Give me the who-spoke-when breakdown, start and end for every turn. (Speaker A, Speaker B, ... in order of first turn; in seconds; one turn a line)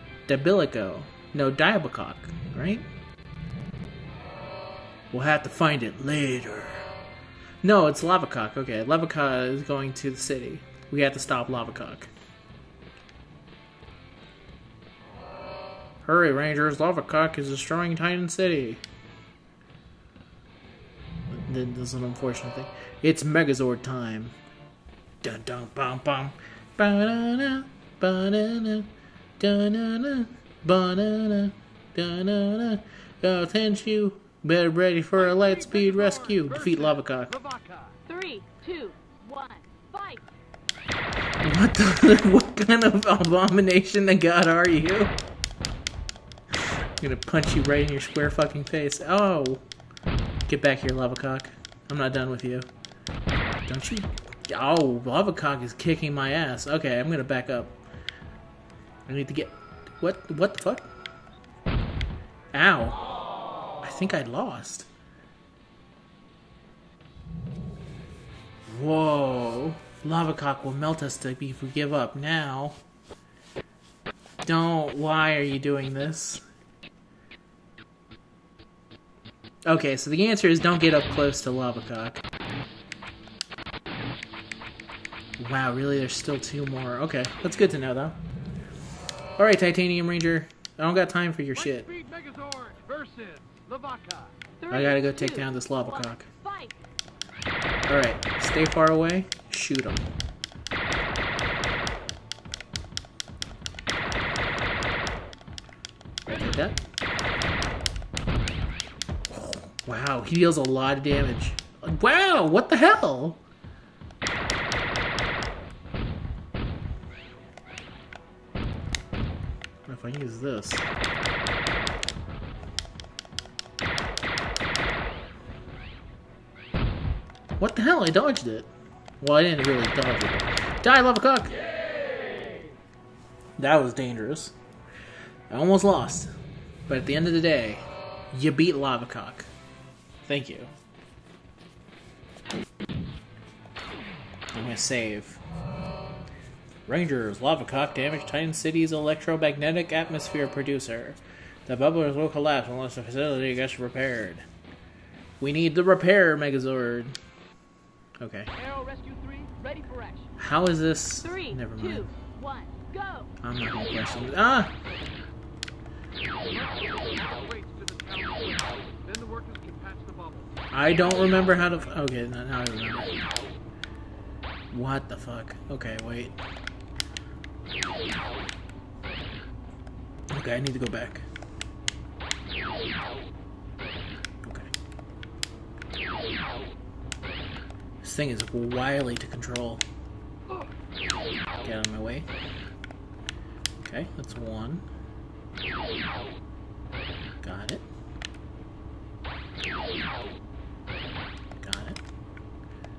Speaker A: 0.3-2.9
Speaker A: 5.1-6.9
Speaker A: 7.6-12.1
Speaker A: 16.0-18.8
Speaker A: 21.3-24.4
Speaker A: 25.2-37.3
Speaker B: 35.1-38.0
Speaker C: 38.1-40.2
Speaker A: 41.4-45.1
Speaker A: 46.6-49.6
Speaker A: 50.5-52.7
Speaker A: 53.7-57.8
Speaker A: 59.1-60.9
Speaker A: 62.5-63.0
Speaker A: 63.8-64.9
Speaker A: 68.7-72.8
Speaker A: 74.4-76.4
Speaker A: 79.7-82.2
Speaker A: 85.4-88.2
Speaker A: 89.4-91.9
Speaker B: 91.5-94.3
Speaker C: 94.6-96.7
Speaker A: 94.7-96.3
Speaker A: 97.9-100.0
Speaker A: 106.3-106.8
Speaker A: 109.3-113.4
Speaker A: 119.9-120.8
Speaker A: 127.6-131.6
Speaker A: 133.6-134.5
Speaker A: 135.5-136.3
Speaker A: 136.9-139.5
Speaker A: 140.2-140.7
Speaker A: 144.5-145.4
Speaker A: 146.9-154.4
Speaker A: 155.4-157.2
Speaker A: 158.2-158.5
Speaker C: 158.6-160.2
Speaker A: 160.4-162.1
Speaker C: 161.2-163.3
Speaker A: 163.4-164.7
Speaker B: 166.3-170.5
Speaker A: 170.7-173.1
Speaker A: 174.7-176.3
Speaker A: 180.3-181.2
Speaker A: 184.4-184.7
Speaker A: 188.0-189.8
Speaker A: 191.6-192.3
Speaker A: 193.8-194.8
Speaker A: 197.4-197.8
Speaker A: 201.6-202.0